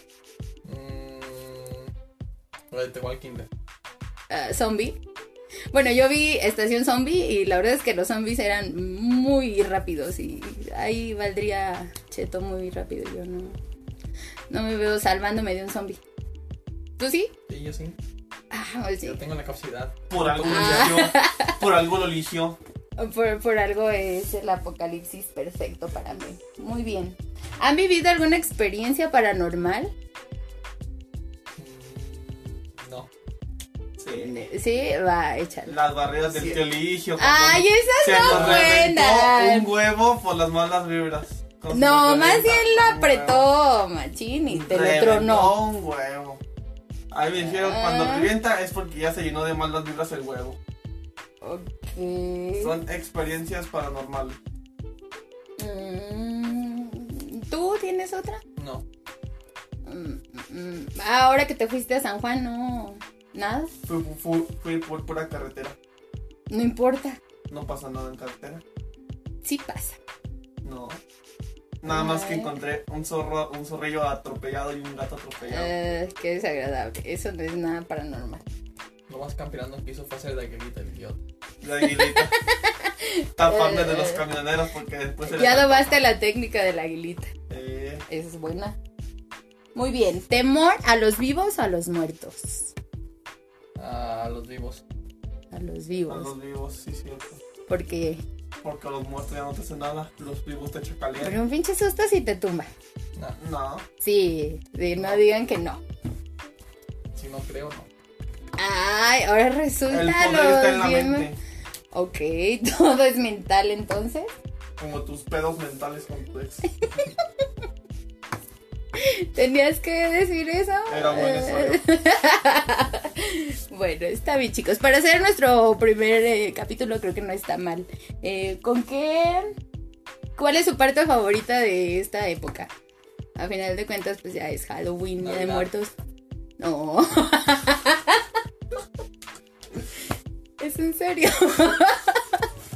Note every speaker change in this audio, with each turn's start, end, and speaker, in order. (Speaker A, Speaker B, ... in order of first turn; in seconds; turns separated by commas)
Speaker A: 0.7-1.9, Speaker A: 2.7-3.5, Speaker B: 4.3-5.0, Speaker B: 5.7-13.6, Speaker B: 14.5-16.0, Speaker B: 17.0-17.3, Speaker A: 17.5-18.0, Speaker B: 18.5-19.2, Speaker A: 19.0-21.1, Speaker C: 20.1-22.6, Speaker B: 20.4-21.6, Speaker B: 23.0-29.9, Speaker A: 31.6-33.1, Speaker C: 34.0-34.4, Speaker B: 34.2-36.6, Speaker C: 35.7-43.5, Speaker B: 37.2-39.7, Speaker A: 38.2-38.8, Speaker B: 41.7-45.6, Speaker C: 44.5-46.4, Speaker C: 47.1-50.6, Speaker B: 47.6-48.3, Speaker B: 51.4-52.8, Speaker C: 52.6-54.4, Speaker B: 55.6-58.4, Speaker A: 58.6-58.9, Speaker B: 59.9-63.7, Speaker C: 63.9-65.8, Speaker B: 66.5-67.2, Speaker C: 67.5-68.6, Speaker B: 69.4-70.0, Speaker C: 70.6-71.0, Speaker C: 71.8-75.7, Speaker B: 71.8-72.6, Speaker B: 75.5-78.4, Speaker A: 79.1-81.2, Speaker C: 81.6-82.3, Speaker B: 81.9-84.3, Speaker C: 83.4-86.1, Speaker B: 85.2-87.3, Speaker C: 87.5-88.0, Speaker B: 88.1-88.8, Speaker B: 89.8-92.7, Speaker A: 93.8-94.8, Speaker B: 95.5-96.3, Speaker C: 96.1-97.4, Speaker B: 97.7-98.2, Speaker C: 98.6-101.4, Speaker B: 101.2-102.7, Speaker C: 103.4-103.8, Speaker B: 104.0-105.8, Speaker A: 105.0-105.2, Speaker A: 107.1-107.9, Speaker B: 108.6-111.3, Speaker C: 109.9-111.4, Speaker B: 111.9-114.3, Speaker C: 114.8-116.7, Speaker B: 116.8-117.2, Speaker B: 119.0-129.5, Speaker C: 120.9-121.8, Speaker B: 130.4-132.7, Speaker B: 133.4-135.9, Speaker A: 135.2-135.7, Speaker B: 136.6-138.2, Speaker B: 140.6-142.5